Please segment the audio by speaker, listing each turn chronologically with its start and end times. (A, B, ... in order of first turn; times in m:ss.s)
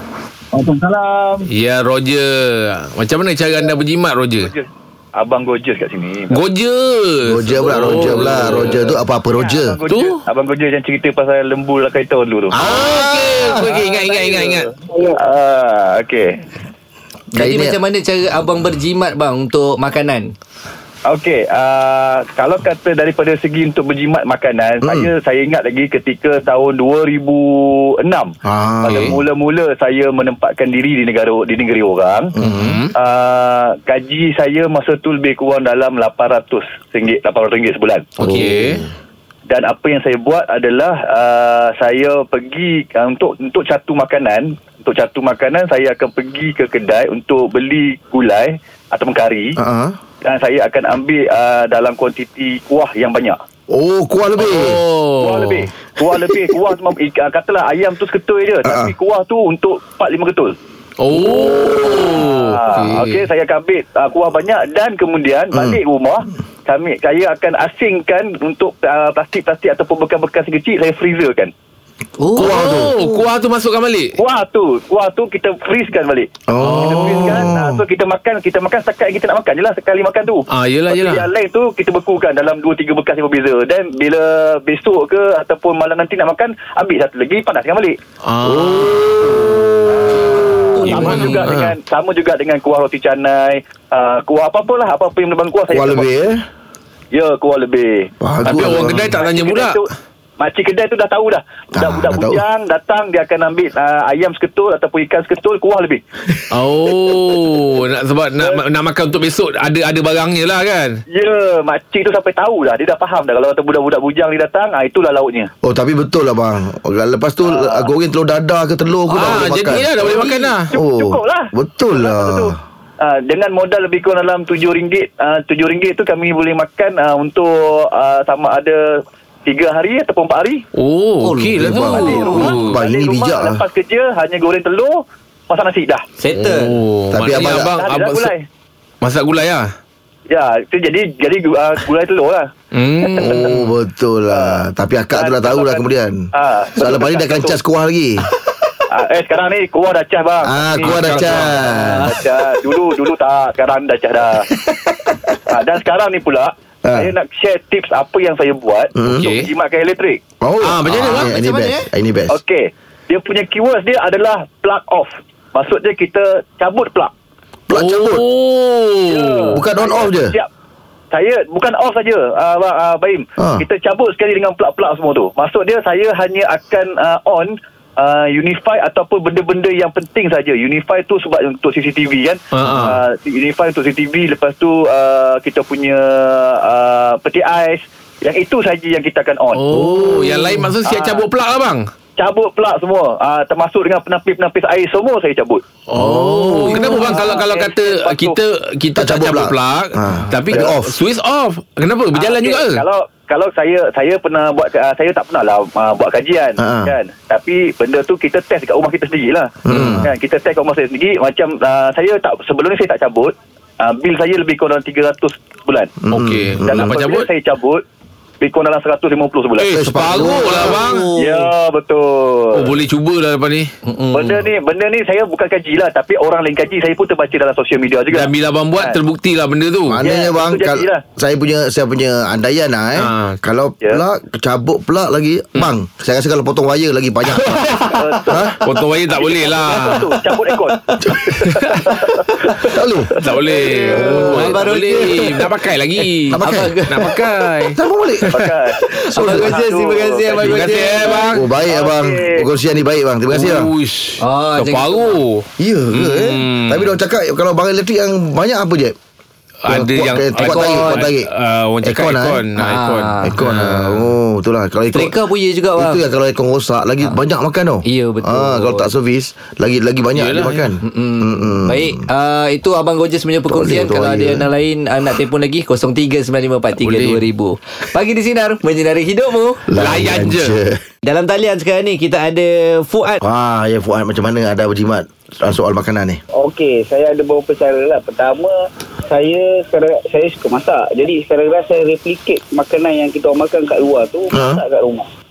0:00.5-0:01.5 A
0:01.4-0:04.5 B
0:04.4-0:06.4 A
0:06.3-0:08.9 B
0:07.2-0:09.8 C
0:07.8-0:08.8 A
0:09.3-0:12.6 A
0:09.9-0:10.2 B
0:12.5-0:13.7 C
0:12.5-0:14.7 B
0:13.5-0:16.3 A
0:17.3-0:17.8 C
0:17.3-0:20.3 D
0:21.1-0:32.3 A
0:24.8-0:25.1 C
0:28.4-0:29.2 C
0:28.8-0:29.1 B
0:32.4-0:32.8 C
0:32.4-0:32.9 B
0:32.9-0:38.1 A
0:38.2-0:38.8 B
0:38.2-0:38.9 C
0:39.5-0:49.5 A
0:49.6-0:50.0 C
0:50.2-0:53.4 A
0:53.7-0:54.8 C
0:54.4-0:55.6 B
0:55.2-1:00.5 A
0:58.6-0:58.9 C
1:01.0-1:03.2 B
1:01.2-1:11.5 A
1:12.2-1:12.6 D
1:12.3-1:13.2 C
1:12.4-1:14.2 B
1:14.2-1:16.3 A
1:16.5-1:17.8 C
1:16.6-1:17.5 B
1:16.8-1:28.0 A
1:20.5-1:21.2 B
1:28.2-1:29.9 B
1:28.4-1:29.5 C
1:30.7-1:31.4 D
1:30.8-1:36.1 A
1:30.8-1:31.6 B
1:30.8-1:31.3 C
1:35.7-1:36.4 C
1:37.1-1:39.9 A
1:38.2-1:39.2 C
1:38.4-1:39.8 B
1:40.4-1:46.0 A
1:41.8-1:42.4 C
1:46.5-1:51.0 B
1:51.1-1:55.5 A
1:55.6-2:00.2 C
1:57.4-1:57.9 A
1:59.1-2:00.7 B
2:00.0-2:10.6 A
2:00.7-2:02.6 C
2:10.7-2:12.8 B
2:11.2-2:12.5 D
2:11.6-2:13.6 C
2:11.7-2:16.0 A
2:16.2-2:16.7 D
2:16.4-2:18.3 B
2:17.1-2:17.7 C
2:17.3-2:18.4 A
2:19.0-2:19.6 B
2:20.3-2:22.5 A
2:22.7-2:23.7 B
2:23.1-2:26.2 C
2:24.3-2:24.6 A
2:25.1-2:27.6 A
2:26.8-2:28.3 C
2:28.9-2:34.5 A
2:30.4-2:32.1 C
2:30.8-2:31.7 B
2:31.6-2:32.2 D
2:35.5-2:40.2 A
2:36.8-2:37.1 C
2:38.9-2:39.3 C
2:39.0-2:39.5 B
2:40.4-2:42.4 C
2:40.6-2:41.3 B
2:41.0-2:41.9 D
2:42.3-2:47.1 A
2:47.7-2:48.2 C
2:47.7-2:49.6 B
2:49.1-2:50.5 A
2:49.5-2:50.4 C
2:51.1-3:09.6 A
2:53.4-2:53.6 C
3:02.5-3:03.0 B
3:09.5-3:11.8 B
3:09.7-3:10.6 D
3:10.8-3:11.2 A
3:12.2-3:15.6 A
3:15.9-3:22.8 B
3:16.0-3:16.9 C
3:16.5-3:17.3 D
3:16.8-3:18.3 A
3:18.9-3:21.0 C
3:22.1-3:35.9 A
3:26.6-3:26.9 C
3:29.6-3:30.1 C
3:29.7-3:30.0 B
3:36.0-3:36.9 C
3:36.1-3:37.3 B
3:36.6-3:37.8 A
3:38.4-3:40.5 A
3:39.6-3:41.1 B
3:39.7-3:40.8 C
3:40.2-3:41.5 D
3:41.2-3:42.7 A
3:42.5-3:43.7 B
3:43.8-3:44.4 D
3:44.1-3:49.0 A
3:48.1-3:50.0 B
3:49.9-3:57.7 C
3:50.0-3:51.0 A
3:53.0-3:53.4 B
3:57.3-3:58.0 B
3:57.8-3:58.5 A
3:58.2-3:58.6 C
3:58.5-4:00.1 B
3:59.1-4:02.3 A
4:01.0-4:01.3 C
4:01.5-4:01.9 B
4:02.5-4:03.1 C
4:03.2-4:08.5 B
4:03.3-4:04.2 A
4:03.4-4:07.2 D
4:03.9-4:04.6 C
4:06.3-4:06.7 C
4:07.7-4:08.4 C
4:08.3-4:12.5 A
4:08.9-4:11.2 D
4:09.1-4:09.6 C
4:10.4-4:11.4 B
4:11.3-4:13.7 C
4:13.3-4:17.0 B
4:14.2-4:15.2 D
4:15.6-4:18.9 C
4:19.6-4:24.1 B
4:19.7-4:21.3 C
4:20.4-4:21.1 D
4:21.8-4:22.4 C
4:22.6-4:23.4 D
4:23.2-4:25.1 C
4:24.9-4:26.0 D
4:25.8-4:32.0 C
4:27.8-4:28.9 D
4:30.1-4:30.7 B
4:30.8-4:39.6 D
4:33.5-4:34.5 C
4:36.8-4:37.2 B
4:39.7-4:40.8 C
4:39.8-4:40.6 B
4:41.0-4:43.2 D
4:43.2-4:46.2 C
4:46.3-4:48.5 E
4:49.1-4:55.1 E
4:54.3-4:54.6 C